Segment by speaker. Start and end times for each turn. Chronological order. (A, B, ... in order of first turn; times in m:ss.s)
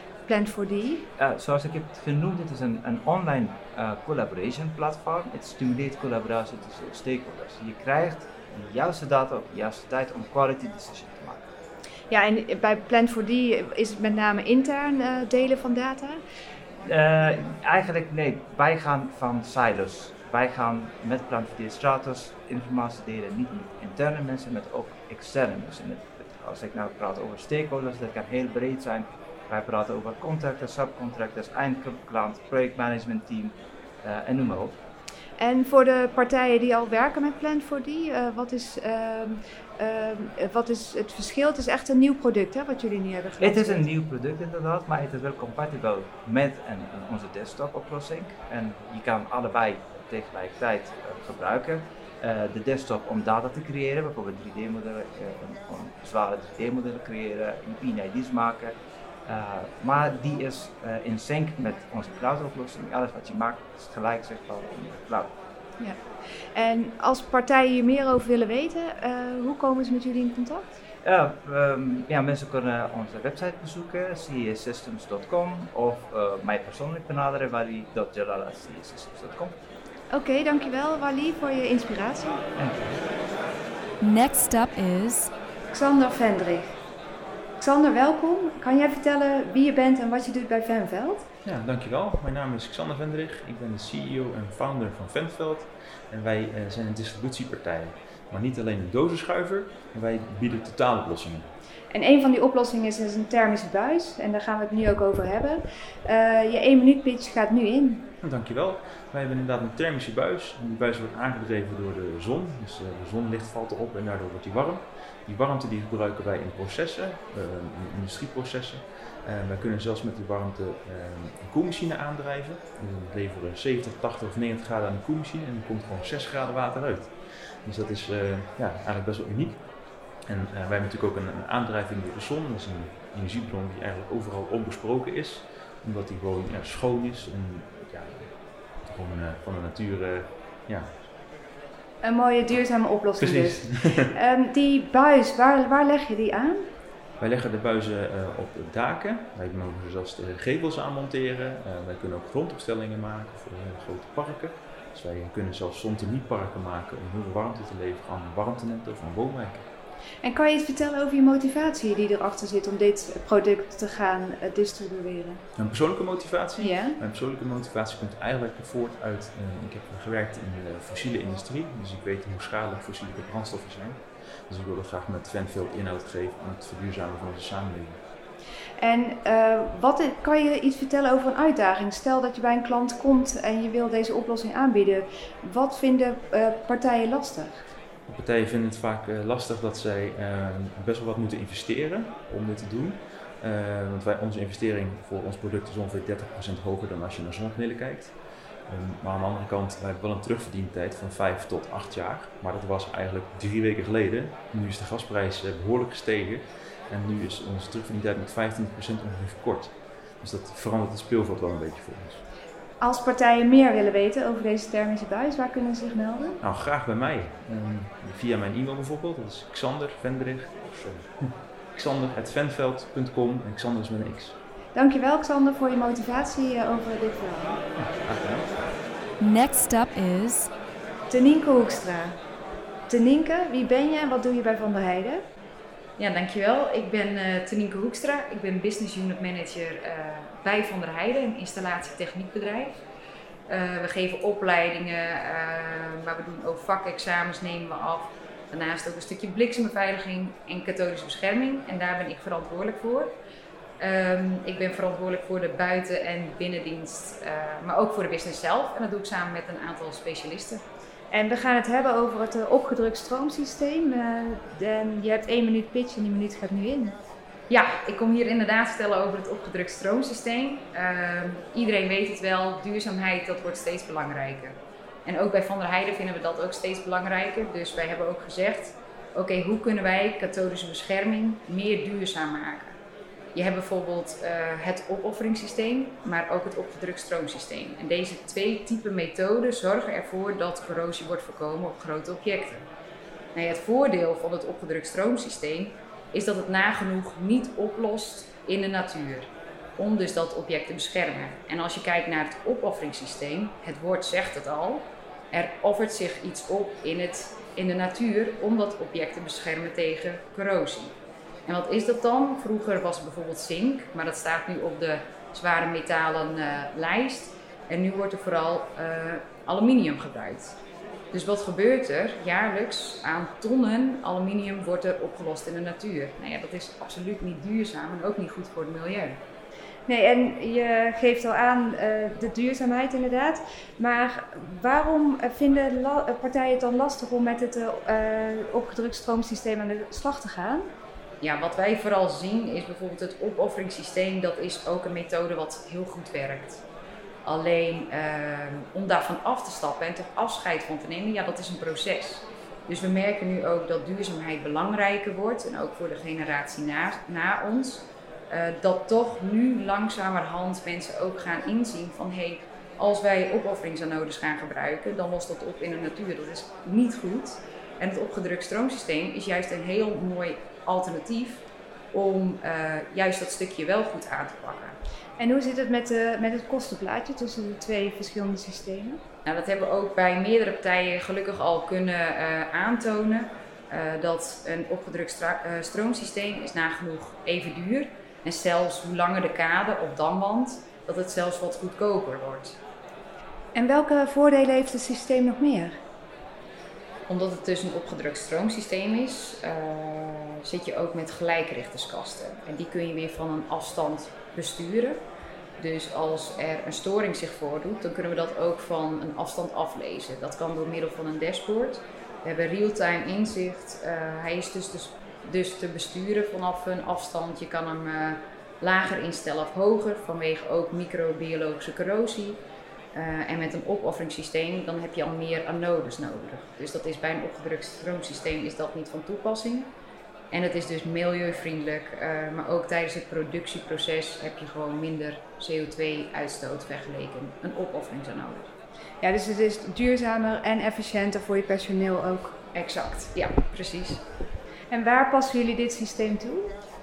0:00.3-0:01.0 A
0:01.2-0:11.5 B
0:12.1-0:16.2 A
0:16.8-0:34.8 B
0:35.4-0:43.9 A
0:43.4-0:58.7 B
0:59.3-1:05.3 B
1:06.5-1:10.7 A
1:11.0-1:19.5 B
1:20.1-1:22.4 A
1:22.6-1:23.0 B
1:24.0-1:25.3 C
1:25.7-1:26.6 A
1:27.6-1:31.3 A
1:31.4-1:41.5 D
1:41.9-1:48.1 A
1:48.2-2:07.1 D
2:07.6-2:09.6 D
2:10.3-2:18.3 D
2:18.8-2:21.0 D
2:22.0-2:26.6 A
2:23.2-2:24.1 D
2:27.2-2:39.7 D
2:40.2-2:45.4 A
2:45.6-2:58.0 D
2:46.6-2:47.0 A
2:58.8-3:07.6 A
3:08.1-3:18.1 D
3:18.7-3:32.2 D
3:32.8-3:36.4 A
3:36.4-3:41.1 D
3:41.7-3:44.4 D
3:44.7-3:47.6 A
3:47.8-3:48.4 D
3:49.2-3:50.5 C
3:51.1-3:52.1 A
3:52.9-3:55.2 A
3:56.0-4:02.8 E
4:03.5-4:13.1 E
4:13.8-4:20.6 E
4:21.1-4:27.0 A
4:27.5-4:42.8 E
4:43.3-4:52.6 E
4:53.3-5:10.9 E
5:11.4-5:20.6 E
5:21.1-5:29.2 E
5:29.9-5:40.7 A
5:41.2-5:46.6 E
5:47.2-6:14.8 E
6:15.2-6:19.0 A
6:19.2-6:32.6 E
6:33.5-6:35.7 A
6:37.1-6:45.0 E
6:45.6-7:02.4 E
7:02.9-7:09.7 E
7:10.3-7:18.5 E
7:19.0-7:22.4 A
7:22.5-7:24.0 E
7:24.7-7:26.5 A